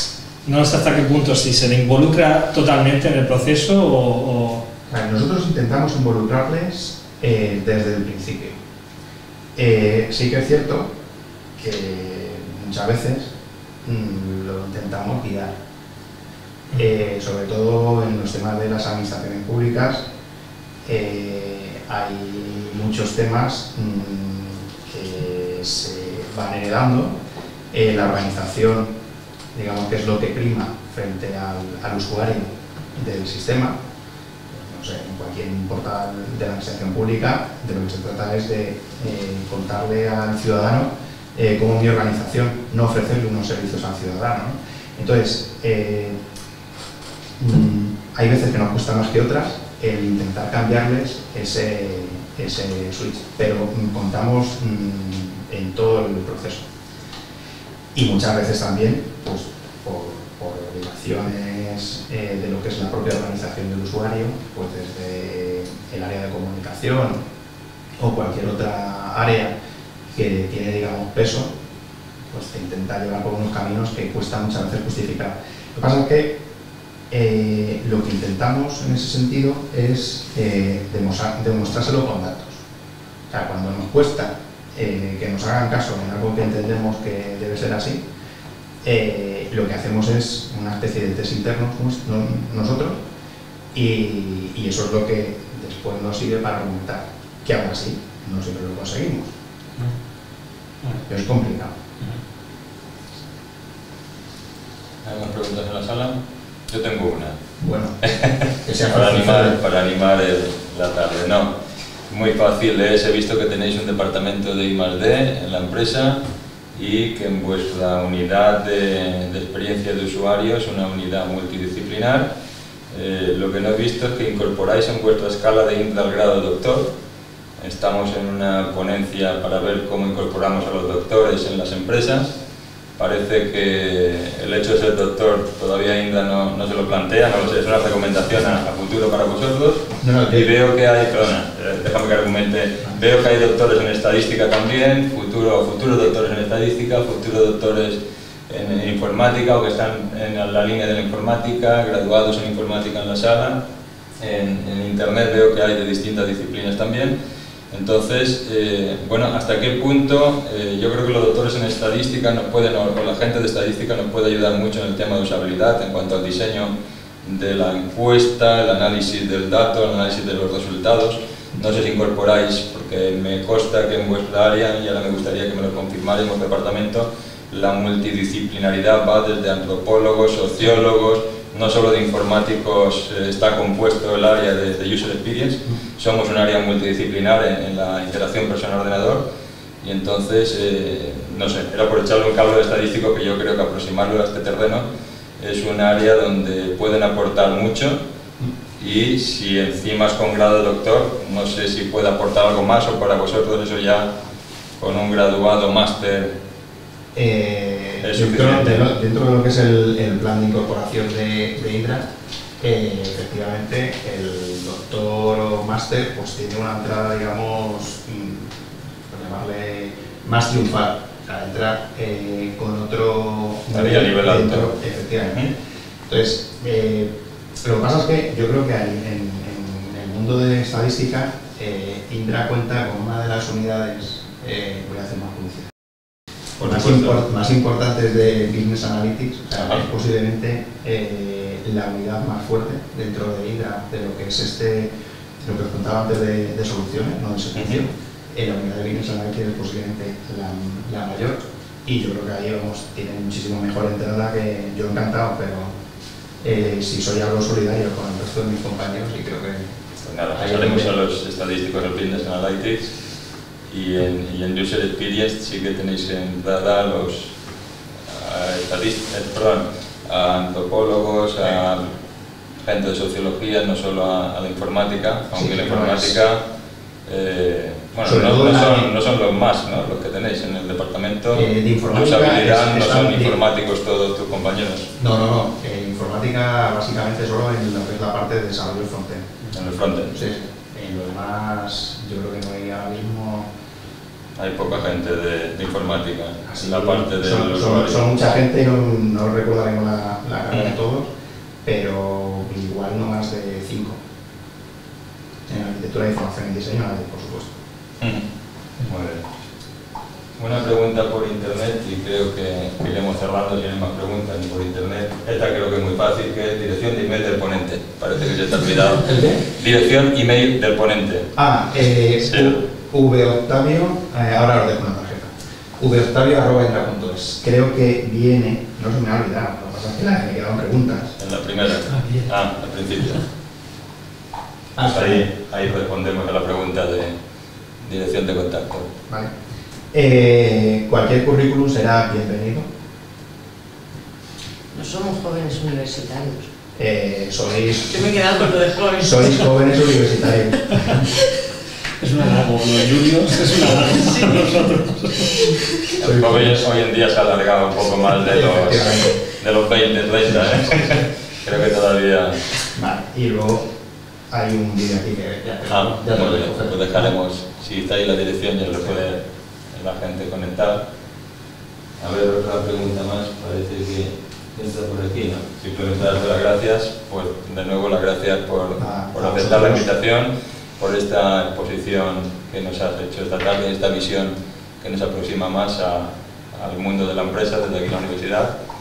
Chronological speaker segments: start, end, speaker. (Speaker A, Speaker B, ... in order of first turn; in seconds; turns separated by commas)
Speaker A: 0.4-4.7, Speaker B: 4.9-8.6, Speaker B: 9.6-10.9, Speaker B: 11.6-15.6, Speaker B: 16.7-20.1, Speaker B: 20.9-27.2, Speaker B: 27.7-28.9, Speaker B: 29.5-33.8, Speaker B: 34.5-46.2, Speaker B: 47.4-56.7, Speaker B: 58.0-67.2, Speaker B: 68.0-69.5, Speaker B: 70.1-71.5, Speaker B: 72.3-76.4, Speaker B: 77.1-82.6, Speaker B: 83.3-88.0, Speaker B: 88.8-93.0, Speaker B: 93.7-99.3, Speaker B: 101.0-101.8, Speaker C: 105.0-107.4, Speaker B: 107.6-108.0, Speaker C: 108.0-111.5, Speaker B: 108.6-109.6, Speaker C: 112.1-116.2, Speaker C: 116.7-122.3, Speaker C: 122.9-126.9, Speaker C: 127.6-132.3, Speaker C: 133.0-153.7, Speaker B: 140.0-140.5, Speaker C: 154.2-157.2, Speaker C: 157.7-189.2, Speaker C: 189.8-194.9, Speaker C: 195.4-198.0, Speaker C: 198.8-204.1, Speaker C: 204.8-206.3, Speaker B: 207.1-218.6, Speaker C: 208.0-208.8, Speaker B: 219.1-225.6, Speaker C: 223.7-224.7, Speaker B: 226.1-235.7, Speaker B: 236.6-255.7, Speaker C: 236.7-237.2, Speaker C: 247.6-247.8, Speaker B: 256.4-259.8, Speaker C: 260.0-262.9, Speaker B: 260.3-260.9, Speaker C: 263.7-267.3, Speaker C: 268.1-271.9, Speaker C: 272.6-276.4, Speaker B: 275.3-276.2, Speaker C: 277.1-284.9, Speaker B: 278.0-278.9, Speaker B: 281.3-283.4, Speaker B: 285.0-289.5, Speaker C: 289.5-290.2, Speaker B: 290.1-293.5, Speaker C: 294.4-298.3, Speaker B: 296.5-301.1, Speaker B: 301.6-304.0, Speaker B: 305.5-307.6, Speaker C: 308.0-308.3, Speaker C: 308.8-309.3, Speaker C: 310.4-321.3, Speaker B: 319.0-319.4, Speaker B: 321.4-331.2, Speaker C: 322.2-322.6, Speaker C: 331.2-333.2, Speaker B: 334.8-335.3, Speaker C: 334.8-337.2, Speaker C: 337.8-338.9, Speaker B: 339.9-342.7, Speaker D: 344.7-346.5, Speaker B: 346.8-348.2, Speaker D: 347.9-349.8, Speaker B: 349.0-351.0, Speaker A: 352.0-355.8, Speaker D: 354.0-354.4, Speaker B: 356.0-356.7, Speaker C: 356.0-362.4, Speaker B: 358.2-359.2, Speaker B: 362.7-363.7, Speaker B: 364.3-367.1, Speaker C: 365.7-370.9, Speaker C: 372.0-388.6, Speaker B: 378.8-379.9